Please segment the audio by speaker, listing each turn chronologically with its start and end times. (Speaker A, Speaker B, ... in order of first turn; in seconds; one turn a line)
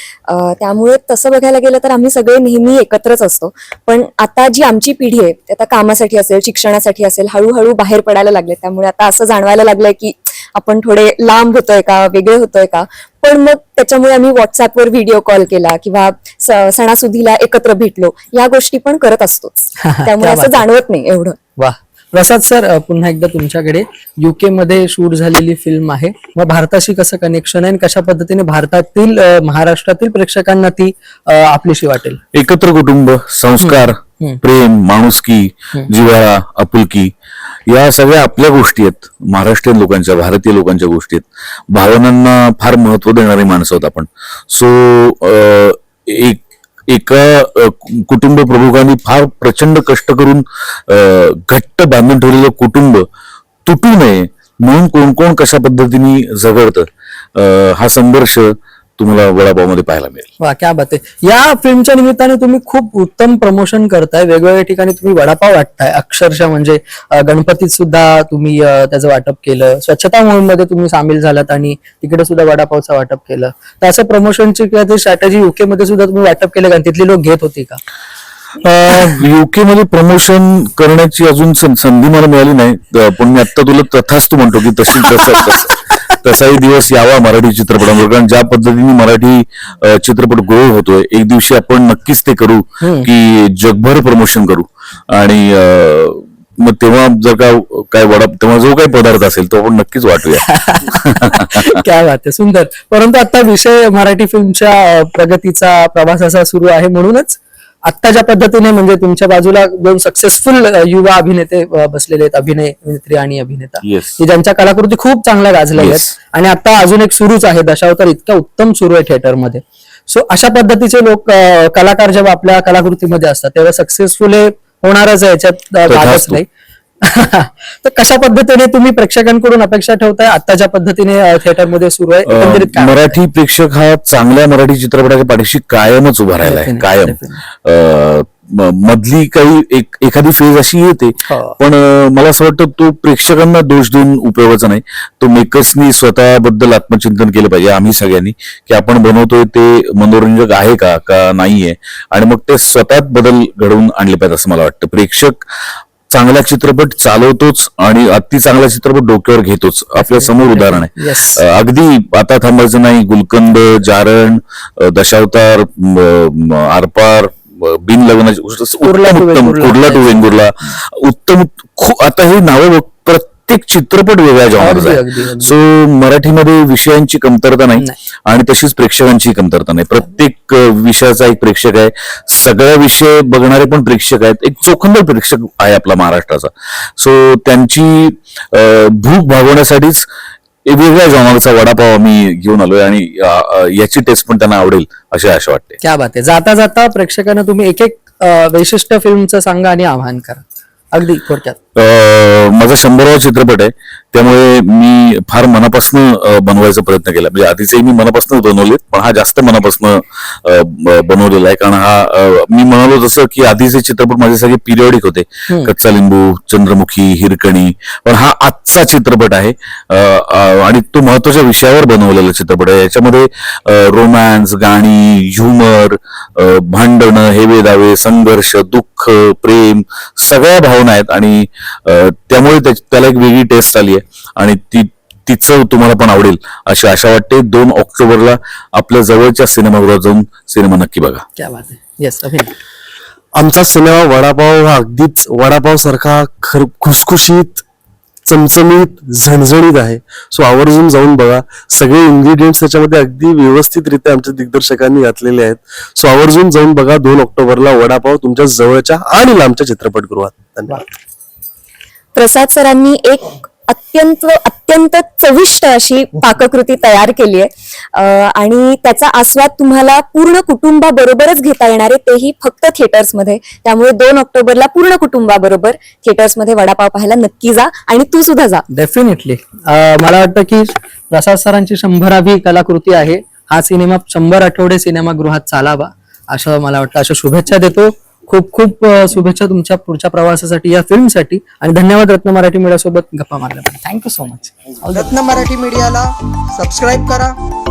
Speaker A: 0.3-21.4
Speaker B: 19.8-20.6
Speaker B: 21.6-32.2
Speaker C: 32.3-37.1
Speaker B: 33.6-34.4
Speaker C: 37.7-53.0
Speaker C: 53.7-60.3
Speaker B: 60.4-77.8
Speaker C: 78.6-101.0
Speaker B: 84.9-85.6
Speaker B: 92.8-93.1
Speaker B: 100.4-126.5
Speaker C: 113.8-114.2
Speaker C: 115.8-116.1
Speaker C: 125.9-126.4
Speaker B: 127.0-133.1
Speaker C: 132.3-190.1
Speaker B: 136.4-137.4
Speaker B: 141.3-141.6
Speaker B: 160.0-161.4
Speaker B: 168.8-170.4
Speaker B: 174.6-175.6
Speaker C: 190.7-195.8
Speaker B: 195.8-201.6
Speaker C: 201.8-241.2
Speaker B: 241.4-242.5
Speaker D: 243.3-247.6
Speaker D: 248.3-260.8
Speaker A: 262.2-278.6
Speaker B: 278.7-295.5
Speaker E: 294.9-297.3